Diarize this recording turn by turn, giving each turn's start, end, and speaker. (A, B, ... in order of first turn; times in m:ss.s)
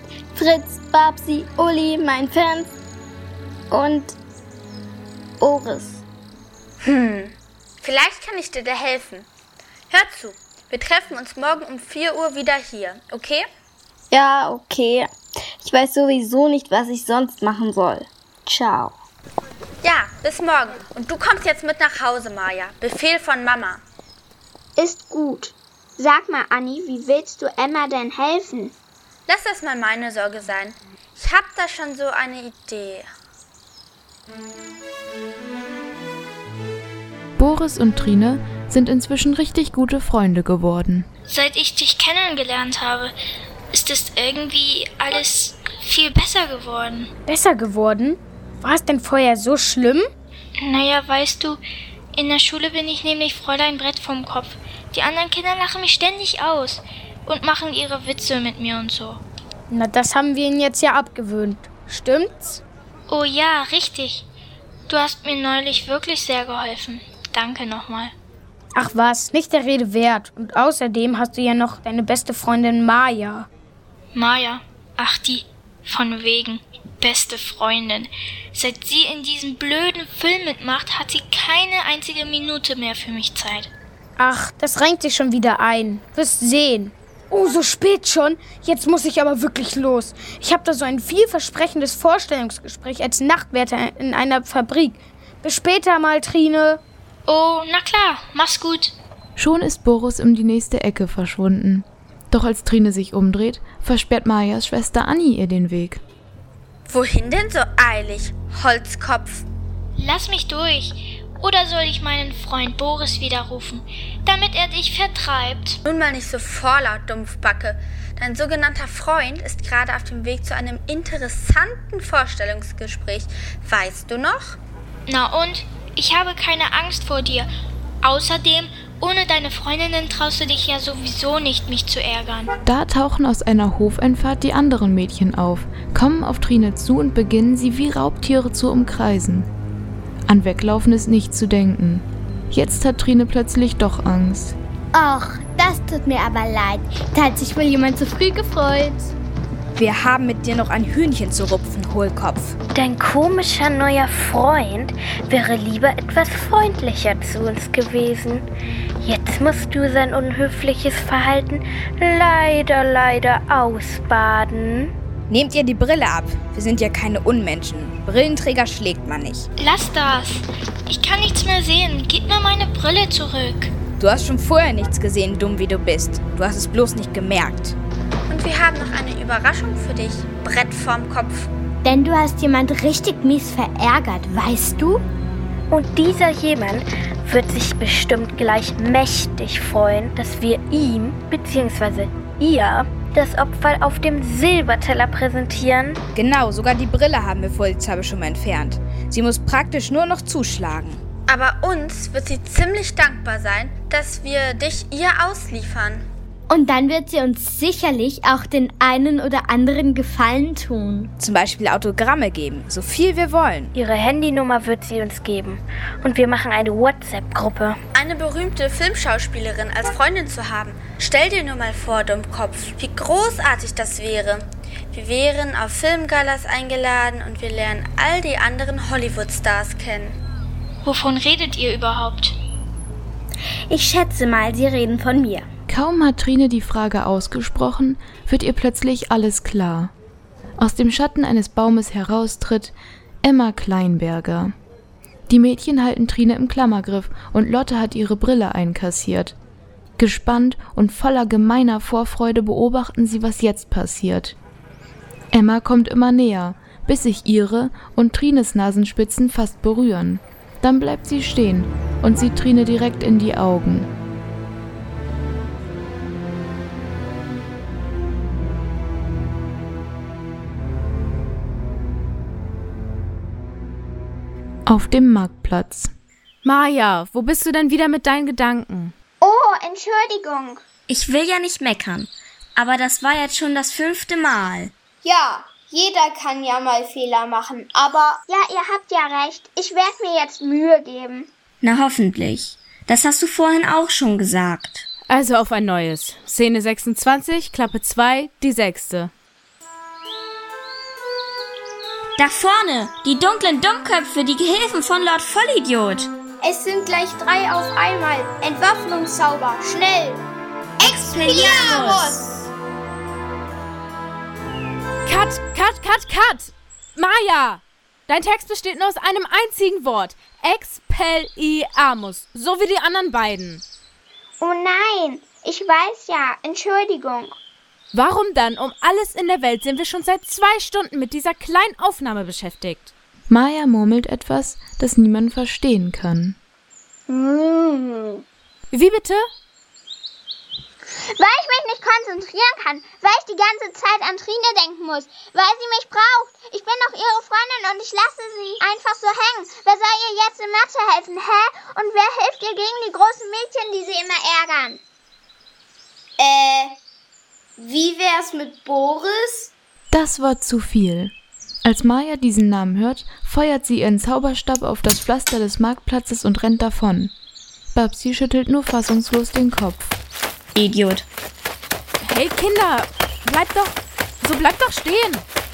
0:00.3-0:02.7 A
0:03.7-0:04.2 A
0:05.4-0:06.0 A
0:06.8-0:09.2 B
0:09.9-0:13.4 B
0:14.1-0:19.0 A
0:19.8-0:23.8 B
0:24.8-0:28.7 C
0:29.3-0:33.1 B
0:37.4-0:41.1 D
0:41.3-0:43.1 E
0:43.7-0:47.1 E
0:47.3-0:50.1 F
0:50.6-0:51.6 E
0:52.1-0:59.2 E
0:59.7-1:02.6 F
1:03.1-1:04.2 E
1:04.9-1:08.1 E
1:08.7-1:13.5 F
1:14.1-1:23.7 E
1:24.2-1:36.8 F
1:37.3-1:38.9 E
1:39.4-1:46.0 D
1:46.8-1:49.4 B
1:50.0-1:55.8 E
1:55.8-2:04.6 B
2:05.1-2:07.5 E
2:08.0-2:12.5 E
2:12.6-2:19.5 D
2:20.3-2:24.6 D
2:24.9-2:29.1 G
2:29.7-2:32.6 H
2:32.7-2:38.4 I
2:39.0-2:44.9 I
2:45.3-2:49.5 H
2:49.6-2:53.7 E
2:54.0-2:57.8 H
2:58.3-3:01.5 B
3:01.8-3:05.0 G
3:05.7-3:16.0 I
3:16.1-3:21.0 H
3:21.3-3:26.0 B
3:26.5-3:31.1 G
3:31.2-3:33.7 H
3:33.7-3:37.8 I
3:37.9-3:50.2 B
3:50.8-3:52.4 E
3:53.7-3:55.5 A
3:55.7-3:59.9 D
4:00.6-4:04.5 D
4:05.3-4:09.4 D
4:10.0-4:14.3 D
4:15.3-4:23.9 D
4:34.7-4:35.9 D
4:36.4-4:38.9 J
4:39.2-4:40.6 C
4:40.9-4:44.7 K
4:45.0-4:48.2 L
4:48.3-4:51.3 C
4:51.6-4:54.9 K
4:55.1-4:59.1 J
5:02.2-5:06.1 K
5:06.4-5:10.2 L
5:10.8-5:12.2 K
5:10.8-5:12.5 L
5:15.0-5:23.6 J
5:24.4-5:27.4 C
5:27.9-5:32.9 J
5:33.3-5:36.4 D
5:37.1-5:38.2 L
5:38.7-5:39.2 J
5:40.9-5:54.8 C
5:56.2-5:56.8 L
5:57.6-5:59.5 L
5:59.9-6:01.1 D
6:01.6-6:07.1 D
6:07.7-6:09.9 D
6:10.6-6:11.0 K
6:12.0-6:15.2 J